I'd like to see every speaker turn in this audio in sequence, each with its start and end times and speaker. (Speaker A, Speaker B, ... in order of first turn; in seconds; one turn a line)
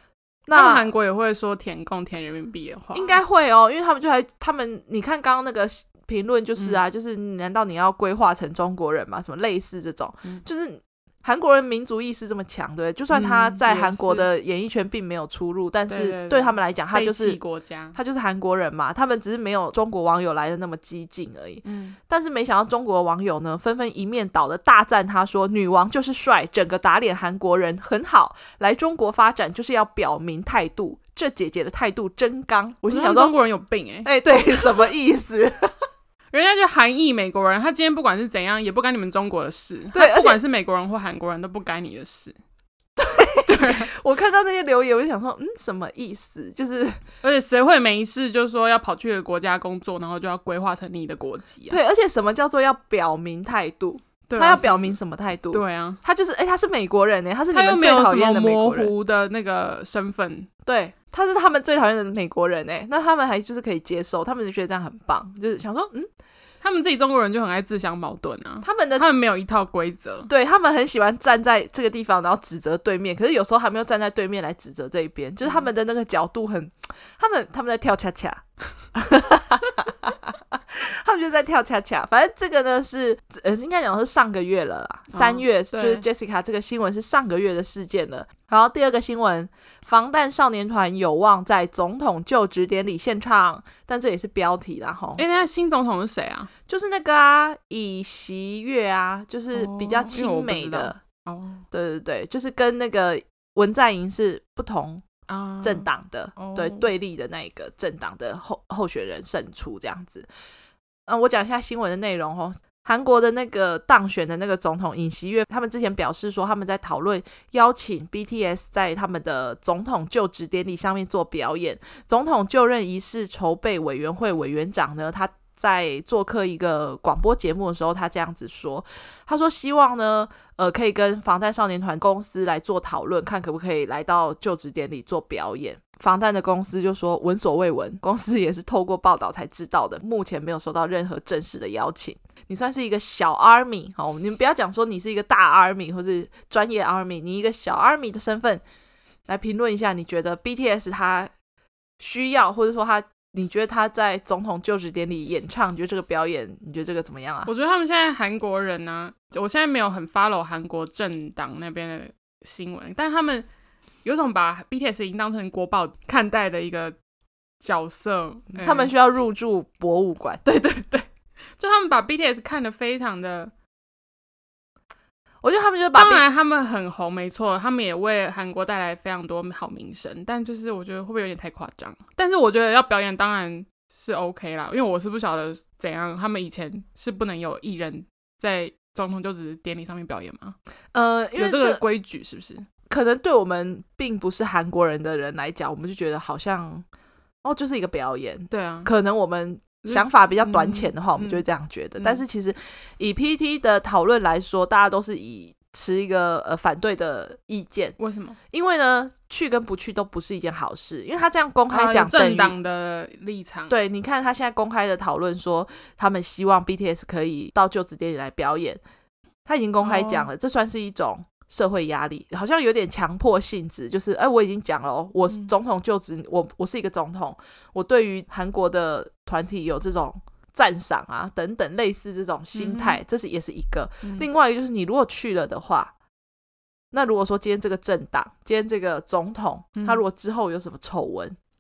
Speaker A: 0.5-0.9
Speaker B: 0.5-3.2
Speaker A: 2.9-17.4
Speaker B: 13.1-14.3
Speaker B: 15.9-18.0
Speaker A: 17.9-33.4
Speaker B: 21.6-22.0
Speaker B: 32.9-34.7
Speaker A: 34.0-35.9
Speaker B: 36.3-42.4
Speaker A: 39.9-40.4
Speaker A: 43.0-47.0
Speaker B: 43.5-43.9
Speaker B: 47.2-51.8
Speaker A: 51.7-58.9
Speaker B: 54.3-55.0
Speaker B: 55.5-56.0
Speaker B: 57.5-60.5
Speaker A: 60.6-66.1
Speaker B: 66.6-70.3
Speaker A: 68.6-69.1
Speaker A: 70.3-95.2
Speaker B: 85.1-86.0
Speaker B: 95.2-96.5
Speaker A: 96.7-101.0
Speaker B: 99.5-101.7
Speaker A: 101.7-105.0
Speaker B: 105.3-106.9
Speaker A: 105.6-110.3
Speaker A: 111.1-148.6
Speaker A: 149.3-151.3
Speaker A: 152.0-157.5
Speaker B: 157.5-163.5
Speaker B: 164.0-167.0
Speaker B: 167.6-168.9
Speaker A: 168.6-170.4
Speaker B: 170.4-173.5
Speaker A: 175.4-176.2
Speaker B: 175.9-190.6
Speaker A: 190.9-191.8
Speaker B: 191.4-192.7
Speaker A: 192.9-196.9
Speaker A: 197.4-208.0
Speaker B: 198.5-198.9
Speaker B: 199.8-201.4
Speaker B: 208.0-208.4
Speaker A: 208.5-212.6
Speaker B: 211.7-213.7
Speaker A: 213.7-218.8
Speaker A: 219.5-235.9
Speaker B: 219.8-220.3
Speaker B: 232.5-233.0
Speaker A: 236.9-241.4
Speaker B: 239.8-240.0